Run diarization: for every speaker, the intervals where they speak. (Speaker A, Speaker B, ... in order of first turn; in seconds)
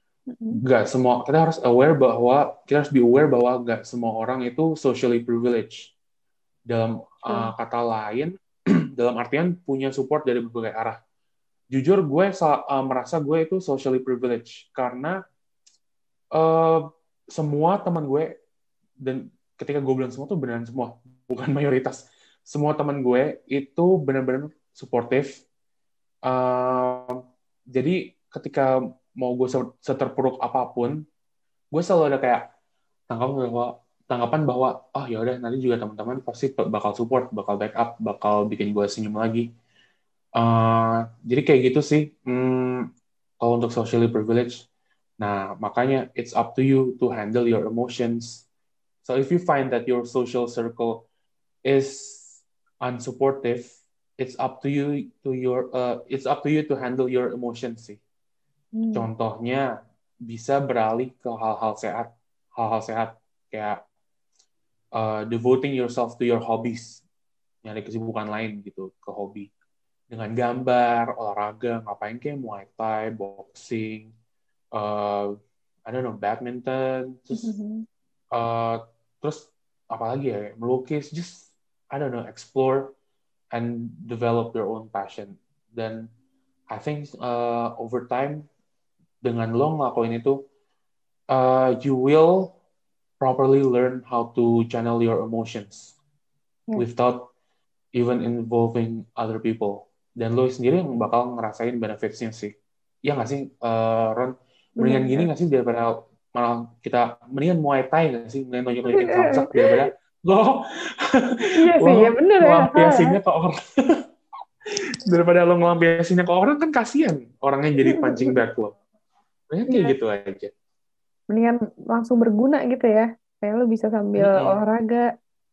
Speaker A: 0.3-0.6, 58.8-59.1, 77.3-77.8, 104.8-105.3, 108.9-109.7, 111.6-113.2, 117.8-118.4, 121.3-125.0
Speaker B: 0.6-5.9, 6.7-8.3, 9.0-11.0, 11.7-15.2, 16.4-18.3, 19.0-25.4, 26.3-27.2, 27.7-31.0, 31.7-32.4, 33.1-39.5, 40.4-42.9, 43.4-44.7, 45.2-48.5, 49.0-51.0, 51.7-58.0, 59.0-59.7, 60.3-63.8, 65.0-67.0, 67.6-69.5, 70.1-74.1, 74.8-75.3, 75.9-77.5, 78.3-82.9, 83.5-86.1, 86.7-88.5, 89.2-90.4, 91.3-92.5, 93.2-96.0, 96.8-97.3, 97.9-102.5, 103.0-114.0, 115.0-118.7, 119.5-120.5, 124.2-124.6